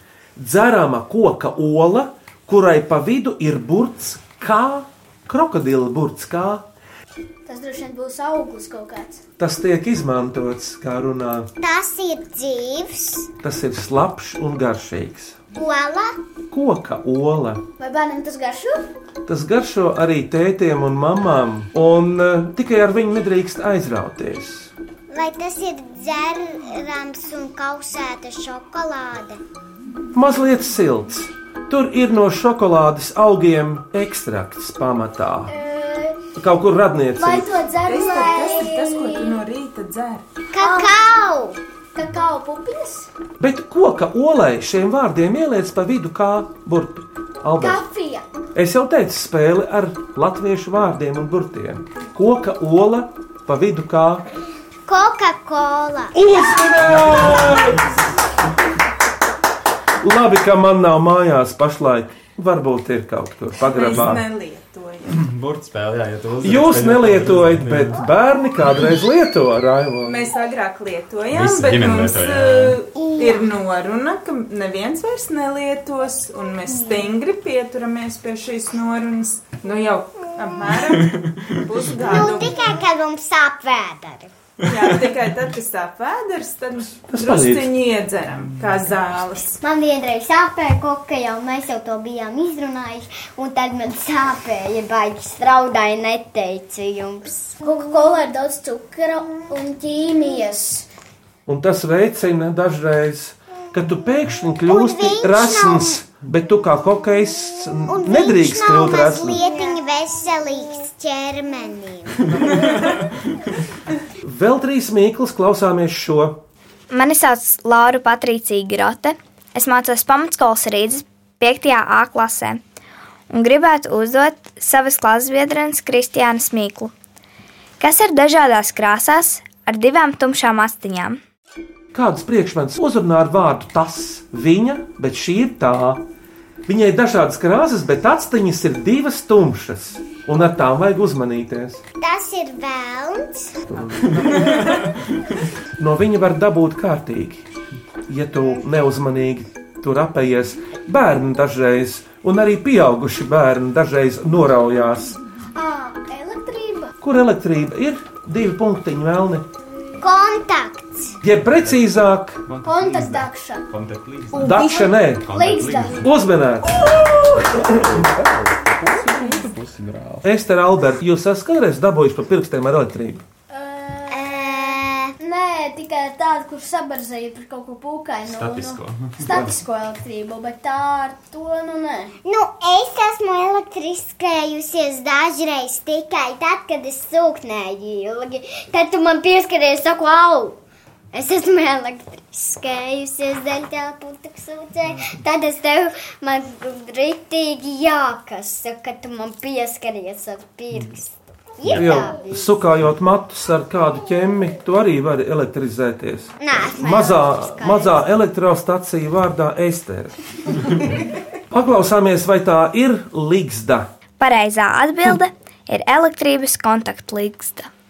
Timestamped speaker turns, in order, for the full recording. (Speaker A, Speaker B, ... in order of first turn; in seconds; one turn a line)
Speaker A: 0.4-6.6
Speaker B: 7.5-9.2
Speaker A: 9.4-11.5
Speaker C: 11.6-13.3
Speaker A: 13.4-15.3
Speaker C: 15.5-16.2
Speaker A: 16.5-17.6
Speaker B: 17.8-18.9
Speaker A: 19.3-24.7
Speaker C: 25.1-29.4
Speaker A: 30.1-35.5
Speaker B: 35.5-36.2
Speaker A: 36.4-37.5
Speaker B: 37.2-39.4
Speaker D: 37.8-40.2
Speaker C: 40.5-41.6
Speaker B: 40.6-41.0
Speaker B: 41.9-43.1
Speaker A: 43.4-47.8
Speaker B: 47.6-48.2
Speaker A: 48.5-54.2
Speaker C: 54.9-56.1
Speaker A: 56.3-57.9
Speaker E: 57.1-57.5
Speaker A: 60.0-64.2
Speaker D: 63.6-65.2
Speaker E: 65.1-68.0
Speaker A: 66.4-70.3
Speaker D: 70.0-82.7
Speaker E: 71.3-72.8
Speaker C: 73.0-73.5
Speaker C: 82.0-84.3
Speaker D: 84.6-89.6
Speaker A: 87.1-87.7
Speaker C: 89.6-97.5
Speaker B: 97.6-100.9
Speaker A: 101.5-109.4
Speaker C: 104.7-106.0
Speaker C: 107.9-112.7
Speaker A: 114.2-116.4
Speaker F: 116.9-122.6
Speaker F: 123.3-126.9
Speaker F: 127.8-131.2
Speaker A: 131.9-136.0
Speaker A: 136.7-141.8
Speaker C: 142.0-143.6
Speaker A: 143.7-144.7
Speaker E: 144.1-144.7
Speaker A: 145.8-147.4
Speaker A: 148.1-155.2
Speaker B: 155.6-156.9
Speaker A: 157.0-159.4
Speaker C: 160.0-161.2
Speaker A: 161.2-162.4
Speaker E: 162.4-164.6
Speaker B: 162.6-163.6
Speaker B: 164.3-166.0
Speaker A: 164.3-165.3
Speaker E: 165.2-166.0
Speaker A: 166.0-166.9
Speaker E: 167.3-170.2
Speaker A: 167.5-167.8
Speaker A: 170.2-173.2
Speaker B: 173.5-182.1
Speaker C: 174.1-175.1
Speaker E: 178.2-179.5
Speaker C: 182.2-190.6
Speaker C: 191.1-202.5
Speaker A: 201.7-210.1
Speaker C: 206.4-208.1
Speaker A: 211.5-213.9
Speaker F: 214.2-217.7